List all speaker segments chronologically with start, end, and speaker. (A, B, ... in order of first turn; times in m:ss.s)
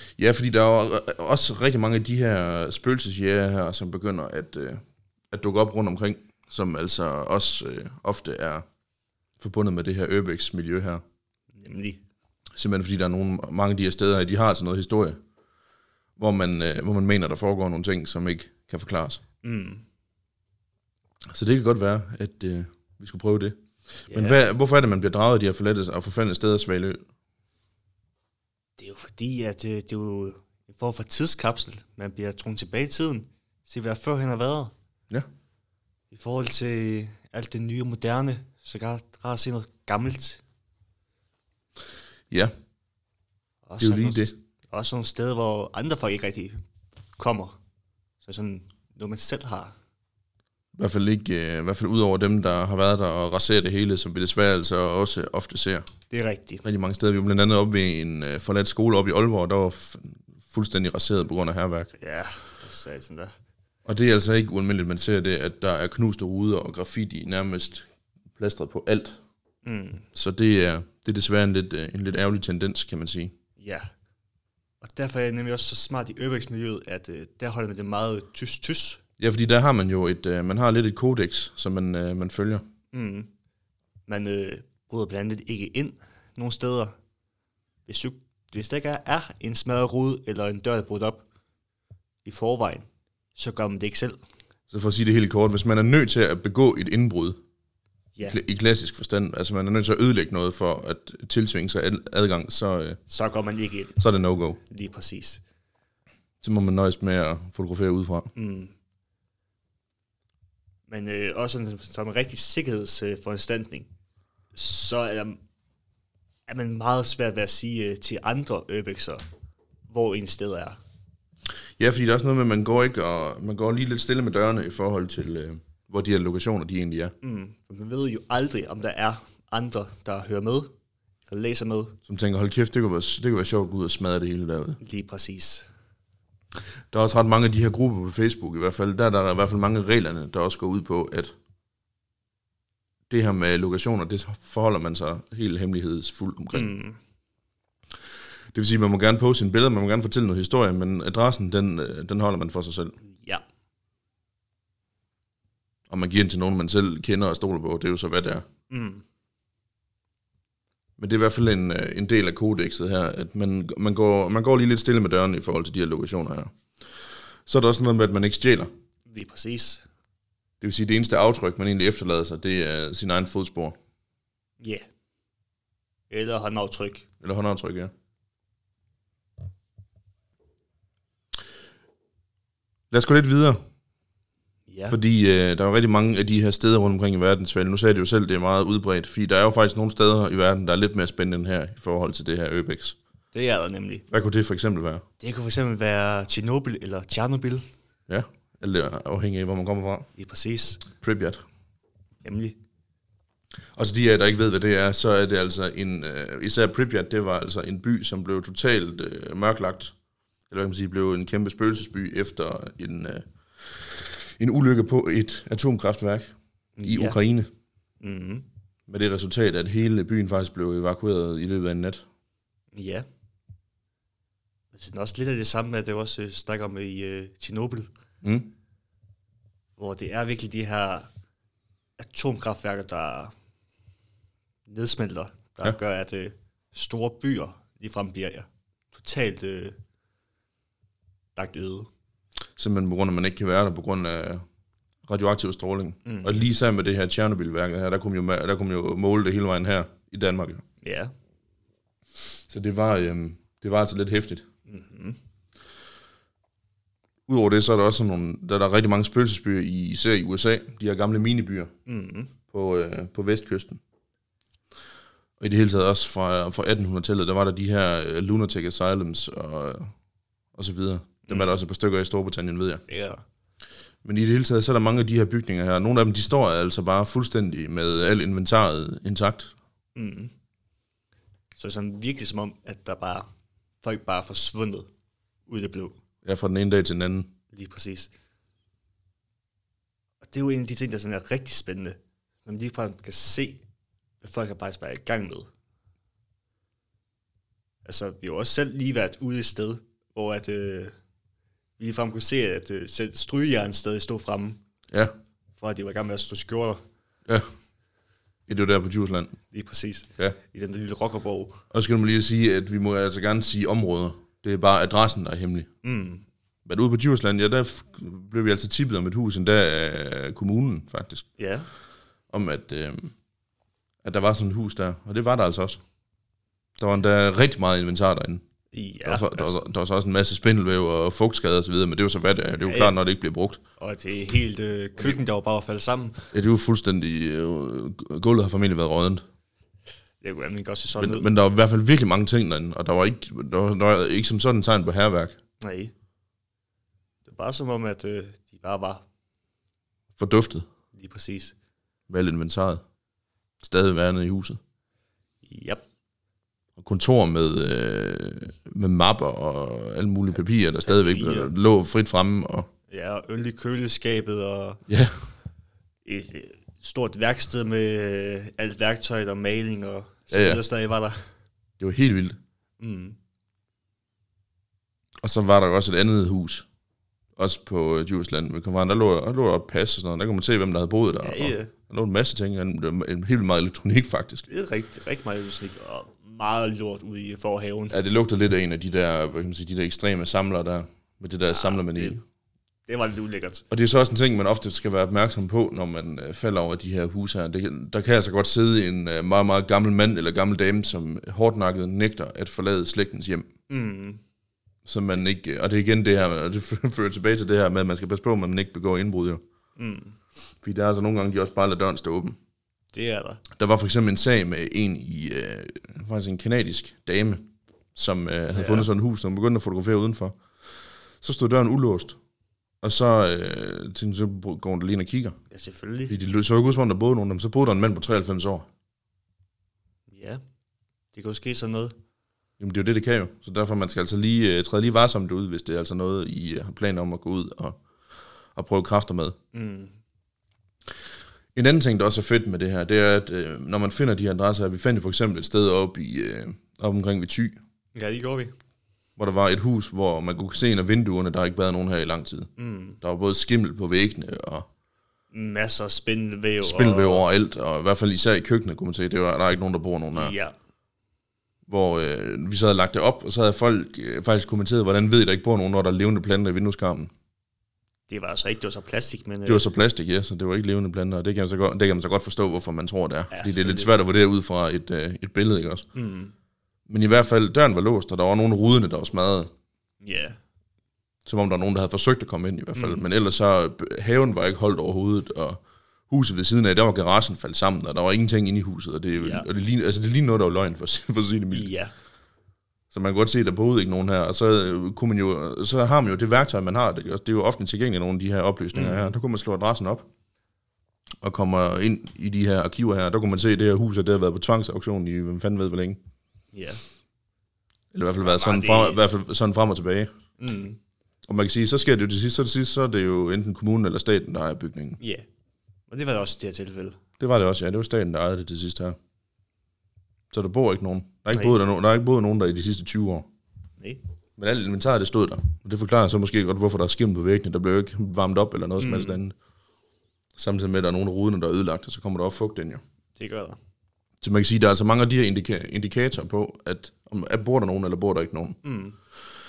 0:00.2-0:08.6 A
0:09.4-0:11.0 A
0:11.6-0:12.0 B
0:12.6-0:15.2 A
0:16.2-0:19.2 A
0:19.4-0:19.8 B
0:21.3-0:27.0 A
0:24.1-0:24.4 B
0:28.8-0:34.7 B
0:36.1-0:40.4 B
0:43.7-0:46.6 B
0:43.8-0:44.3 A
0:47.2-0:47.6 B
0:48.2-0:49.7 B
0:50.8-0:55.9 A
0:56.1-0:56.6 B
0:56.6-1:01.9 A
1:02.0-1:03.3 B
1:03.9-1:09.2 A
1:09.6-1:10.1 B
1:10.1-1:13.3 A
1:13.6-1:13.9 B
1:14.8-1:19.0 B
1:19.2-1:22.6 A
1:22.9-1:23.3 B
1:24.1-1:27.0 B
1:27.9-1:31.3 B
1:32.2-1:34.2 B
1:34.7-1:37.4 A
1:38.2-1:43.0 A
1:43.1-1:44.0 B
1:44.0-1:44.6 A
1:44.7-1:45.4 B
1:46.4-1:48.3 A
1:48.4-1:48.7 B
1:50.9-1:53.9 B
1:54.6-1:55.4 B
1:56.5-1:59.2 B
1:59.9-2:00.8 B
2:01.8-2:07.1 A
2:07.2-2:10.7 B
2:11.3-2:12.0 B
2:12.1-2:14.8 A
2:14.8-2:15.7 B
2:16.9-2:21.4 A
2:23.1-2:26.7 A
2:26.5-2:27.0 B
2:28.5-2:33.0 A
2:33.1-2:33.4 B
2:35.9-2:38.5 A
2:38.7-2:39.0 B
2:41.0-2:46.6 A
2:47.5-2:48.7 A
2:49.1-2:49.9 B
2:50.6-2:53.8 A
2:56.1-2:57.1 B
2:57.2-2:57.9 A
3:02.9-3:03.6 A
3:04.7-3:05.0 B
3:04.9-3:13.0 A
3:13.3-3:14.1 B
3:14.1-3:15.0 A
3:15.2-3:17.6 B
3:18.1-3:20.1 A
3:20.2-3:20.8 B
3:21.0-3:21.4 A
3:22.2-3:22.6 B
3:23.8-3:29.9 A
3:30.5-3:37.5 A
3:36.8-3:37.2 B
3:38.0-3:38.5 B
3:38.9-3:42.1 A
3:42.7-3:43.1 B
3:44.7-3:47.9 B
3:48.2-3:48.5 A
3:49.8-3:51.1 B
3:52.0-3:53.3 B
3:54.7-3:59.8 B
4:01.4-4:01.9 B
4:02.6-4:04.4 A
4:05.1-4:10.6 A
4:06.1-4:06.4 B
4:10.8-4:11.1 B
4:12.5-4:14.5 A
4:14.7-4:15.2 B
4:17.3-4:21.7 A
4:21.9-4:22.4 B
4:22.5-4:23.8 A
4:25.4-4:29.9 A
4:30.6-4:32.8 A
4:31.3-4:31.6 B
4:32.9-4:33.2 B
4:34.0-4:39.5 A
4:40.0-4:40.3 B
4:41.6-4:43.3 B
4:43.8-4:44.9 B
4:45.5-4:46.0 B
4:46.2-4:47.3 A
4:47.5-4:48.1 B
4:50.2-4:53.6 B
4:54.2-4:55.5 B
4:57.8-5:00.9 B
5:01.8-5:04.6 B
5:05.6-5:06.8 B
5:08.5-5:09.4 A
5:09.5-5:11.6 B
5:11.7-5:15.7 A
5:15.8-5:16.2 B
5:16.6-5:21.3 A
5:21.4-5:21.7 B
5:22.3-5:23.1 A
5:24.0-5:25.8 A
5:26.8-5:28.4 A
5:28.7-5:29.6 B
5:29.0-5:33.6 A
5:32.6-5:33.0 B
5:33.8-5:36.3 B
5:36.3-5:39.2 A
5:40.2-5:41.3 B
5:41.0-5:45.4 A
5:45.6-5:45.9 B
5:47.2-5:49.0 B
5:50.2-5:50.7 A
5:50.9-5:51.6 B
5:52.1-5:52.8 A
5:53.6-5:54.6 A
5:55.4-5:55.8 B
5:56.8-6:02.7 A
6:00.8-6:01.5 B
6:02.9-6:04.8 B
6:04.9-6:05.2 A
6:06.0-6:11.3 B
6:10.3-6:10.6 A
6:11.8-6:12.4 A
6:12.8-6:13.2 B
6:15.2-6:16.7 A
6:17.4-6:24.5 A
6:21.2-6:21.7 B
6:24.5-6:28.0 B
6:27.9-6:32.2 A
6:31.5-6:32.2 B
6:32.9-6:33.6 B
6:33.7-6:43.5 A
6:43.7-6:44.2 B
6:44.9-6:49.4 A
6:49.8-6:50.2 B
6:50.6-6:52.4 A
6:52.9-6:53.4 B
6:53.6-7:00.4 A
6:58.5-6:58.9 B
7:01.2-7:02.2 A
7:02.8-7:05.4 A
7:05.5-7:06.2 B
7:06.1-7:08.7 A
7:10.1-7:10.4 B
7:11.1-7:12.0 B
7:12.6-7:17.8 A
7:18.6-7:19.4 A
7:19.5-7:20.0 B
7:21.6-7:27.6 A
7:28.0-7:28.6 B
7:29.2-7:32.5 A
7:32.6-7:33.0 B
7:33.0-7:34.7 A
7:35.3-7:37.2 B
7:36.6-7:40.4 A
7:40.1-7:40.6 B
7:41.7-7:47.1 A
7:48.1-7:49.6 B
7:49.4-7:55.9 A
7:53.3-7:53.9 B
7:56.0-7:56.3 B
7:56.9-7:59.5 A
8:00.0-8:00.4 B
8:01.3-8:11.7 A
8:02.8-8:03.1 B
8:09.1-8:09.5 B
8:11.5-8:11.9 B
8:12.9-8:20.1 A
8:18.7-8:19.1 B
8:21.2-8:26.0 A
8:26.5-8:26.8 B
8:27.9-8:30.1 A
8:28.2-8:29.0 B
8:30.4-8:30.8 B
8:31.3-8:35.0 A
8:35.0-8:35.3 B
8:35.9-8:37.0 B
8:37.2-8:39.0 A
8:40.3-8:43.3 A
8:44.4-8:49.4 A
8:48.8-8:49.2 B
8:50.4-8:52.8 A
8:53.2-8:53.6 B
8:54.2-8:58.6 A
8:58.6-8:59.0 B